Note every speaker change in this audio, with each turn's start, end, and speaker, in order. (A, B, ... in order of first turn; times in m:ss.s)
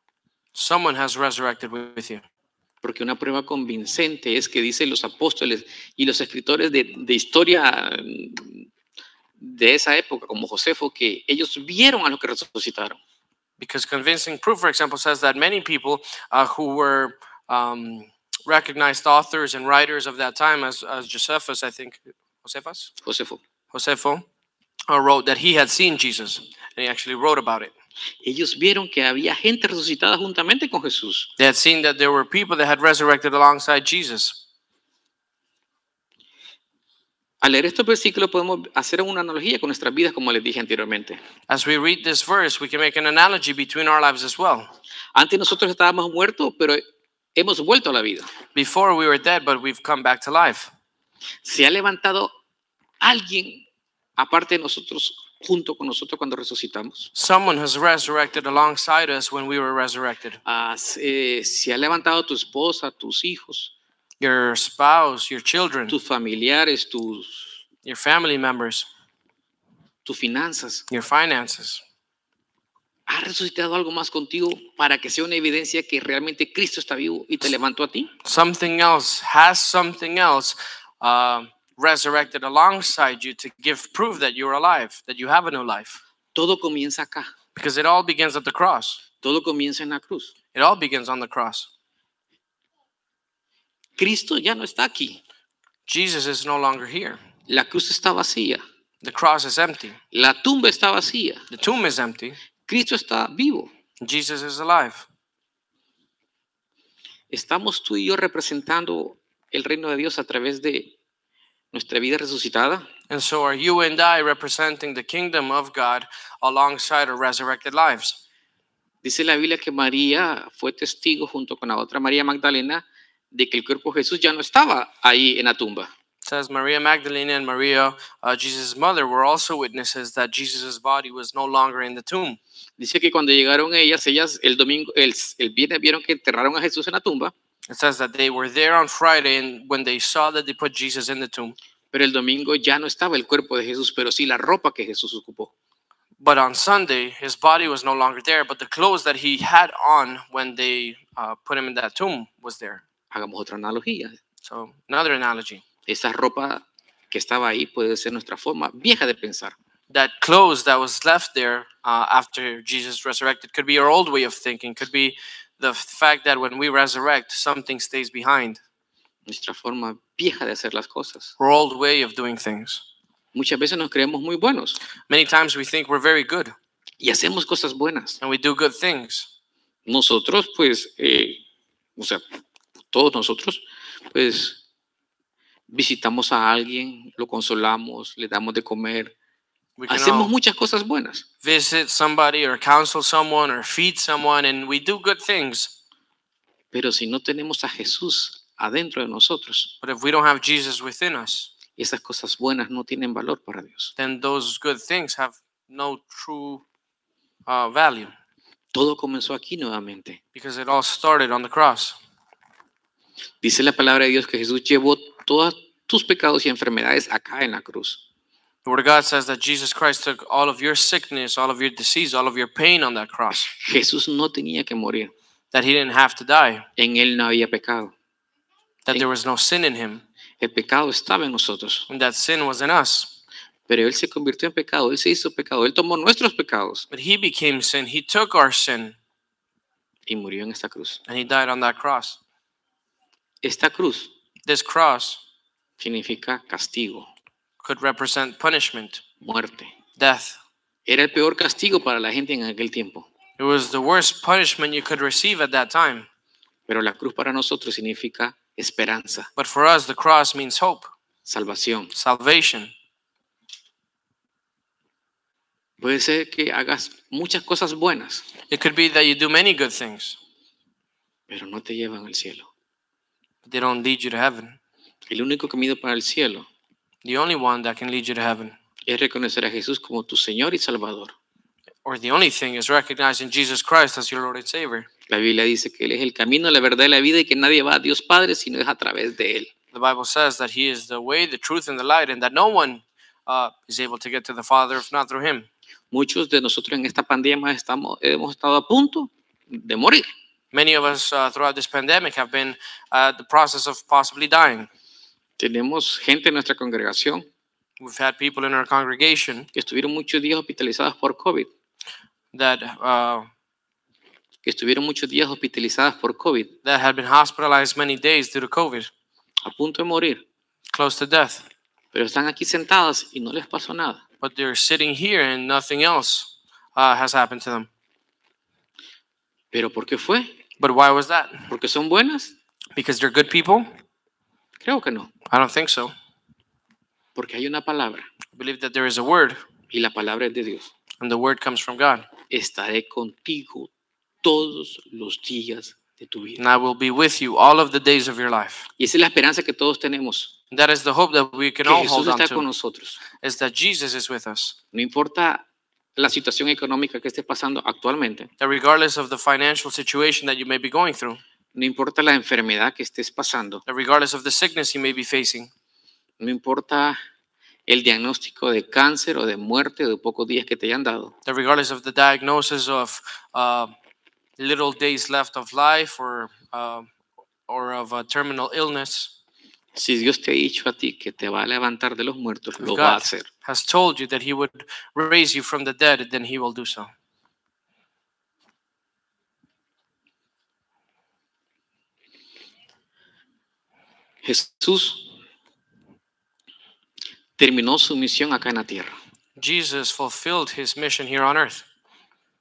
0:00.5-0:02.2 A
0:02.8-0:08.7 B
0:09.4-0:13.0 B
0:13.6-0:22.9 A
0:23.0-0:23.4 B
0:23.7-0:24.2 A
0:24.9-0:27.7 A
0:28.2-0:31.3 B
0:31.4-0:34.4 A
0:37.4-0:41.2 B
0:41.5-0:44.7 A
0:45.1-0:46.8 B
0:47.4-0:48.3 B
0:48.5-0:50.7 A
0:51.4-0:52.3 B
0:53.0-0:53.6 B
0:54.2-0:57.1 B
0:57.1-1:00.4 A
1:00.4-1:03.7 B
1:04.2-1:06.0 A
1:05.9-1:07.6 B
1:07.8-1:08.9 A
1:10.0-1:10.8 B
1:10.9-1:11.8 A
1:13.1-1:18.1 B
1:18.2-1:26.0 A
1:26.3-1:27.3 B
1:27.5-1:29.0 A
1:29.2-1:30.3 B
1:30.5-1:31.7 A
1:34.0-1:35.2 B
1:35.9-1:37.2 A
1:37.5-1:38.6 B
1:39.0-1:40.0 A
1:40.1-1:41.4 B
1:41.5-1:42.4 A
1:42.7-1:43.7 B
1:44.0-1:45.0 A
1:47.3-1:50.9 B
1:51.7-1:52.9 B
1:53.1-1:58.2 A
1:59.0-2:05.9 B
2:06.2-2:12.4 A
2:12.8-2:17.3 B
2:17.7-2:21.6 A
2:21.9-2:25.5 B
2:26.2-2:32.8 A
2:33.1-2:34.2 B
2:34.4-2:35.6 A
2:35.9-2:39.5 B
2:39.9-2:48.6 A
2:49.3-2:51.3 B
2:51.4-2:52.8 A
2:53.3-2:54.8 B
2:55.1-2:56.5 A
2:57.0-2:58.2 B
2:58.2-2:59.3 A
2:59.8-3:01.4 B
3:02.0-3:02.2 B
3:02.9-3:04.6 B
3:05.7-3:09.1 B
3:09.8-3:10.3 A
3:09.9-3:11.2 B
3:11.4-3:15.7 A
3:16.7-3:19.7 B
3:19.8-3:21.5 A
3:21.8-3:23.9 B
3:24.0-3:26.6 A
3:27.5-3:28.1 A
3:28.7-3:30.2 B
3:30.3-3:32.0 A
3:33.4-3:38.0 B
3:38.6-3:43.5 A
3:43.5-3:45.1 B
3:45.5-3:46.6 A
3:46.8-3:47.9 B
3:48.8-3:50.0 A
3:50.4-3:51.9 B
3:51.9-3:53.1 A
3:53.7-3:56.9 B
3:56.9-3:59.0 A
4:00.1-4:01.0 B
4:01.1-4:02.2 A
4:03.4-4:04.1 B
4:04.4-4:05.2 A
4:05.8-4:07.1 B
4:07.6-4:09.0 A
4:09.2-4:09.7 B
4:10.0-4:10.4 A
4:10.9-4:13.1 B
4:13.4-4:16.1 A
4:16.7-4:19.3 B
4:19.4-4:20.9 A
4:21.2-4:21.9 B
4:21.9-4:22.7 A
4:25.8-4:28.3 B
4:28.5-4:30.2 A
4:31.3-4:32.5 B
4:33.4-4:34.6 A
4:35.1-4:36.5 B
4:37.0-4:38.5 A
4:38.9-4:41.1 B
4:41.8-4:44.9 A
4:45.1-4:49.5 B
4:49.7-4:55.5 A
4:55.9-5:00.1 B
5:00.5-5:04.7 A
5:05.4-5:07.2 B
5:07.8-5:09.5 A
5:09.5-5:11.5 B
5:12.3-5:13.3 A
5:14.4-5:16.5 B
5:16.6-5:18.9 A
5:19.4-5:20.2 B
5:20.7-5:21.4 A
5:21.9-5:24.0 B
5:24.2-5:27.7 A
5:29.5-5:30.4 B
5:30.6-5:31.5 A
5:31.5-5:32.3 B
5:32.7-5:33.7 A
5:34.6-5:35.1 B
5:35.3-5:35.9 A
5:37.1-5:38.1 B
5:38.3-5:39.4 A
5:39.7-5:40.7 B
5:41.0-5:42.1 A
5:42.3-5:43.7 B
5:44.2-5:46.4 B
5:46.4-5:48.7 A
5:48.8-5:50.3 B
5:50.5-5:52.4 A
5:51.6-5:53.0 B
5:53.2-5:54.6 A
5:54.7-5:55.4 B
5:56.0-5:58.3 B
5:58.4-6:01.2 A
6:01.5-6:03.6 B
6:03.7-6:05.5 A
6:06.2-6:07.0 B
6:07.7-6:11.1 B
6:11.2-6:13.7 A
6:14.4-6:16.9 A
6:17.5-6:19.1 A
6:19.7-6:23.3 B
6:22.6-6:26.9 A
6:34.2-6:35.1 B
6:37.4-6:38.9 B
6:39.4-6:41.6 A